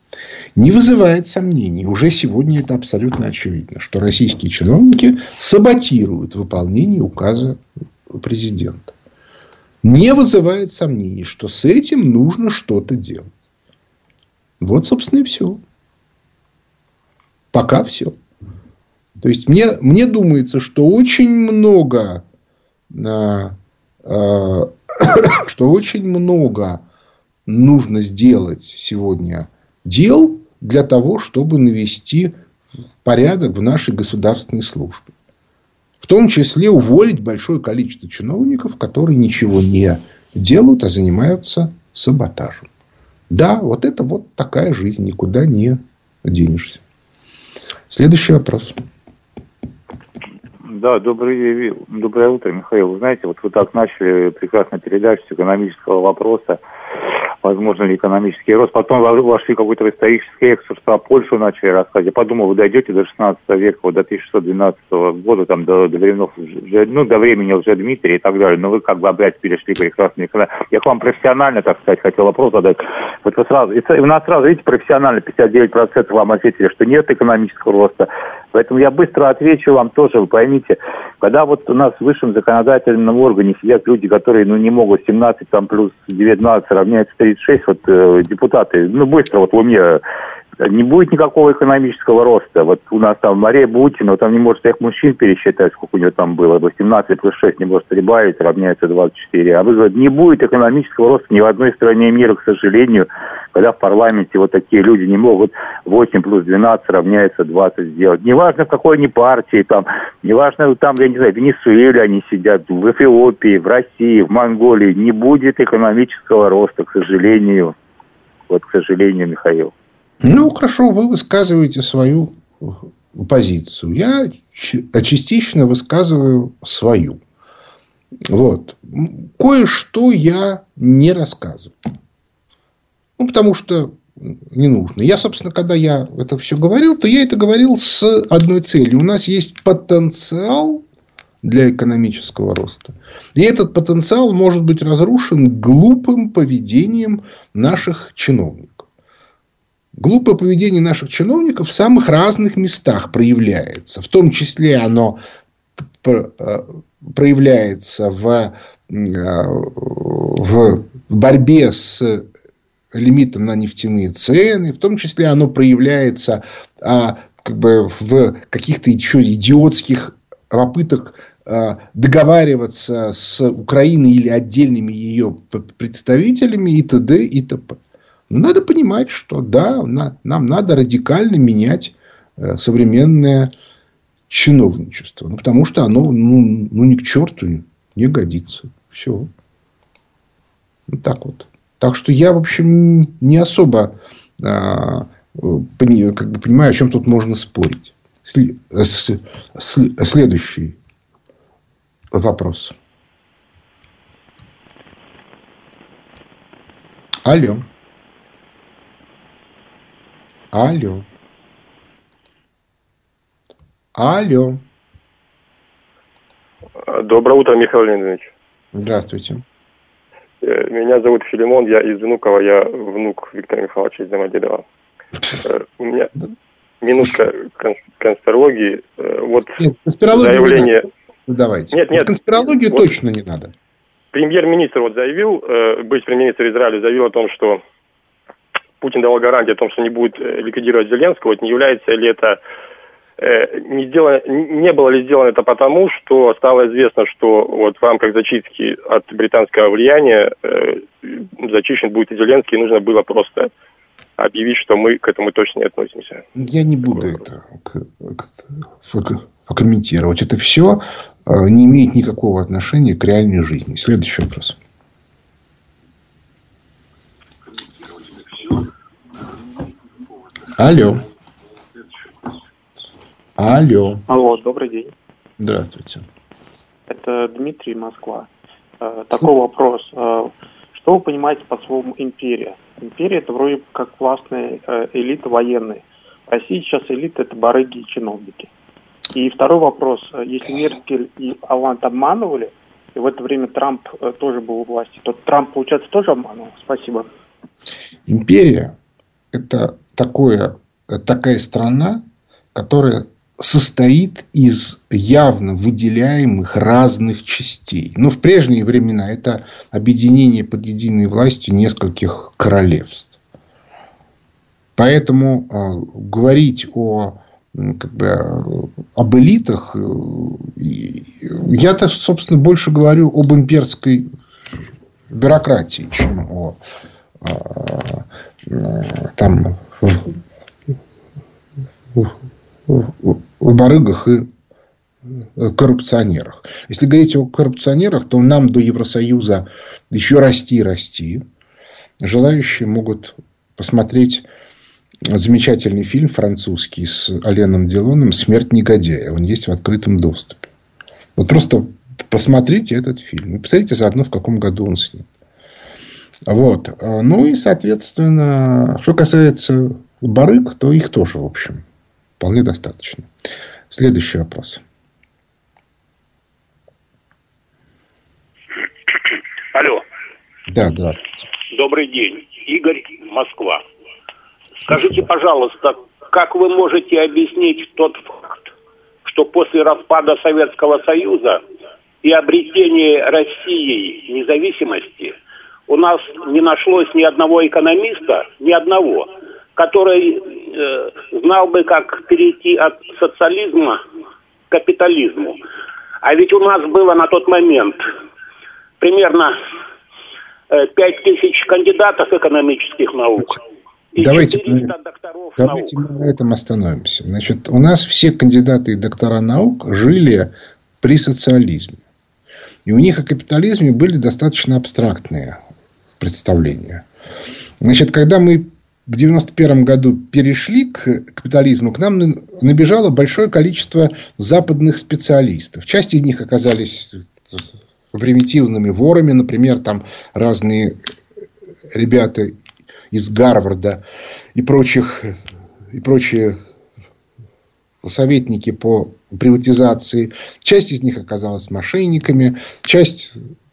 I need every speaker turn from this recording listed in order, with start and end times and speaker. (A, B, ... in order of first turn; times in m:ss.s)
0:00.6-0:08.9 A
0:09.8-0:13.3 A
0:14.6-0:15.6 A
0:17.5-0:18.2 A
0:19.2-0:22.2 A
0:22.9-0:26.8 A
0:27.5-0:32.4 A
0:33.0-0:35.1 A
0:36.0-0:42.7 A
0:43.3-0:46.8 A
0:47.9-0:48.8 A
0:50.7-0:56.6 B
0:57.4-1:30.0 B
1:30.6-1:57.8 B
1:58.5-1:59.7 B
2:00.2-2:07.2 A
2:08.3-2:11.7 A
2:13.2-2:20.8 A
2:21.4-2:28.9 A
2:30.0-2:35.2 A
2:36.0-2:42.3 A
2:42.9-2:57.8 A
2:58.3-3:03.5 A
3:04.3-3:09.3 A
3:10.9-3:20.8 A
3:22.1-3:22.8 A
3:27.3-3:27.7 A
3:30.5-3:31.1 A
3:34.0-3:34.6 A
3:36.9-3:38.3 C
3:38.8-3:39.4 A
3:40.4-3:44.6 C
3:45.4-3:46.1 C
3:46.8-3:49.5 C
3:49.6-3:53.5 A
3:50.1-3:50.9 C
3:51.7-3:52.9 C
3:54.1-3:57.6 C
3:58.8-4:02.4 C
4:03.2-4:13.5 C
4:14.2-4:16.2 C
4:16.4-4:24.6 A
4:16.9-4:17.2 C
4:30.6-4:31.0 A
4:33.4-4:34.0 A
4:34.1-4:34.9 D
4:35.4-4:36.0 A
4:36.9-4:38.3 D
4:38.8-4:48.5 D
4:49.1-4:57.1 D
4:58.1-4:58.8 A
4:59.3-5:02.0 A
5:02.6-5:13.2 A
5:14.8-5:24.1 A
5:25.1-5:26.6 A
5:27.2-5:30.1 A
5:32.7-5:34.3 A
5:35.4-5:41.2 A
5:42.0-5:44.3 A
5:45.1-5:50.5 A
5:51.2-5:55.1 A
5:56.3-6:01.6 A
6:02.2-6:03.1 A
6:03.7-6:04.6 A
6:09.5-6:09.8 E
6:10.5-6:11.2 A
6:11.5-6:13.6 E
6:14.6-6:18.5 E
6:19.1-6:21.4 E
6:22.0-6:25.1 E
6:25.7-6:33.8 E
6:34.5-6:35.4 E
6:36.0-6:37.8 E
6:38.8-6:39.3 E
6:40.5-6:43.4 E
6:43.9-6:45.8 E
6:44.0-6:44.7 A
6:45.4-6:51.8 A
6:52.7-6:55.4 A
6:56.0-6:56.8 A
6:57.6-7:10.8 A
7:11.7-7:12.4 A
7:12.9-7:13.8 A
7:14.4-7:15.2 A
7:15.7-7:16.4 A
7:17.8-7:23.2 A